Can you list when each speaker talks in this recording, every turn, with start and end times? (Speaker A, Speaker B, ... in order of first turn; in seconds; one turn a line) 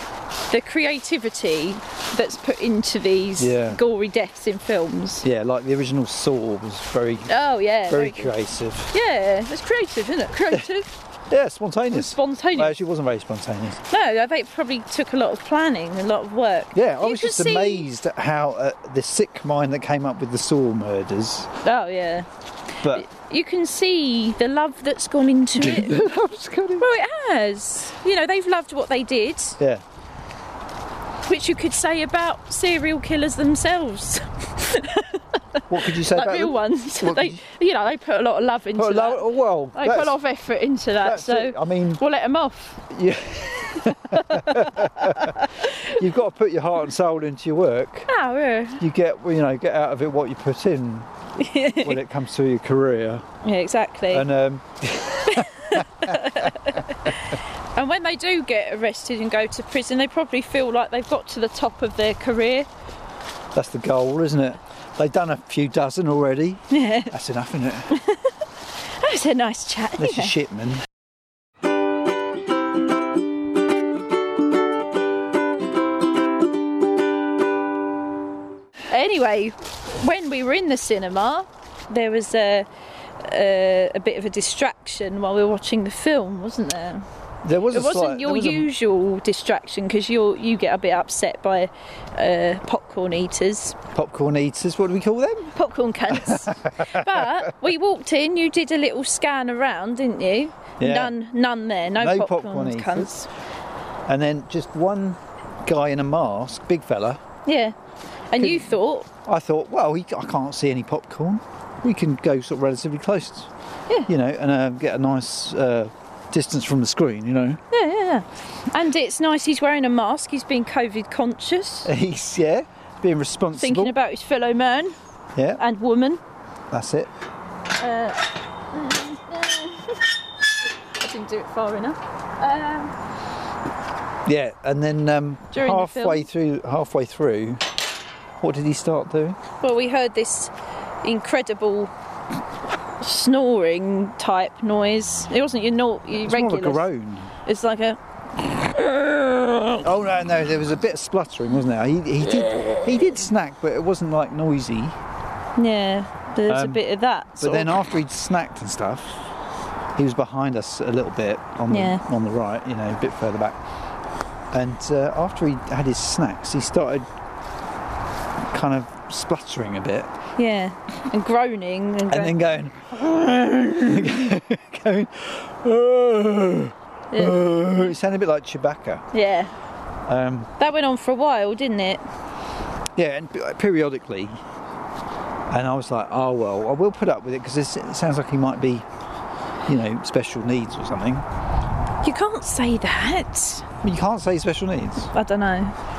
Speaker A: 0.5-5.3
Speaker B: 3.4-3.8
Speaker B: 5.2-7.3
Speaker A: 7.3-8.3
Speaker B: 7.9-8.9
Speaker A: 8.9-10.9
Speaker B: 11.3-13.8
Speaker A: 11.9-12.8
Speaker A: 13.9-17.9
Speaker B: 16.7-21.5
Speaker A: 21.6-22.3
Speaker A: 22.8-26.0
Speaker B: 25.6-26.9
Speaker A: 26.8-29.6
Speaker A: 31.3-42.8
Speaker B: 35.7-37.4
Speaker B: 38.8-40.2
Speaker B: 41.0-42.0
Speaker B: 42.9-48.1
Speaker A: 44.1-46.0
Speaker A: 48.1-48.8
Speaker B: 48.8-51.1
Speaker A: 51.4-52.0
Speaker B: 51.7-53.3
Speaker A: 53.4-54.3
Speaker B: 54.1-56.8
Speaker A: 55.3-62.7
Speaker B: 63.5-68.0
Speaker A: 66.7-67.1
Speaker A: 67.9-68.3
Speaker A: 69.0-70.3
Speaker B: 70.0-70.9
Speaker A: 78.9-82.7
Speaker A: 83.2-87.0
Speaker B: 87.4-88.7
Speaker A: 87.7-93.8
Speaker B: 93.9-95.5
Speaker A: 95.5-103.3
Speaker B: 96.1-97.5
Speaker B: 100.8-101.1
Speaker B: 102.0-103.1
Speaker B: 104.1-107.2
Speaker A: 107.5-107.8
Speaker A: 108.3-109.1
Speaker B: 108.4-113.5
Speaker B: 114.1-117.6
Speaker A: 117.7-121.9
Speaker B: 121.9-124.0
Speaker A: 123.5-125.0
Speaker B: 125.3-125.6
Speaker A: 125.6-126.2
Speaker B: 126.7-127.1
Speaker A: 127.8-130.1
Speaker A: 131.0-132.9
Speaker B: 134.2-137.7
Speaker A: 135.5-136.3
Speaker B: 138.4-139.4
Speaker A: 139.6-140.5
Speaker A: 141.0-141.9
Speaker A: 143.0-146.9
Speaker B: 146.1-147.3
Speaker A: 147.4-148.0
Speaker B: 149.7-155.0
Speaker A: 155.6-157.9
Speaker B: 156.5-156.8
Speaker B: 157.4-159.2
Speaker B: 160.0-163.6
Speaker A: 161.7-162.0
Speaker B: 164.5-167.1
Speaker B: 168.5-170.1
Speaker A: 170.4-172.4
Speaker B: 172.1-179.1
Speaker A: 177.1-177.8
Speaker A: 179.1-179.5
Speaker B: 180.1-180.5
Speaker A: 180.6-182.0
Speaker B: 183.0-184.4
Speaker B: 185.5-188.9
Speaker B: 189.7-191.2
Speaker A: 192.0-193.7
Speaker B: 193.8-195.1
Speaker A: 195.1-195.8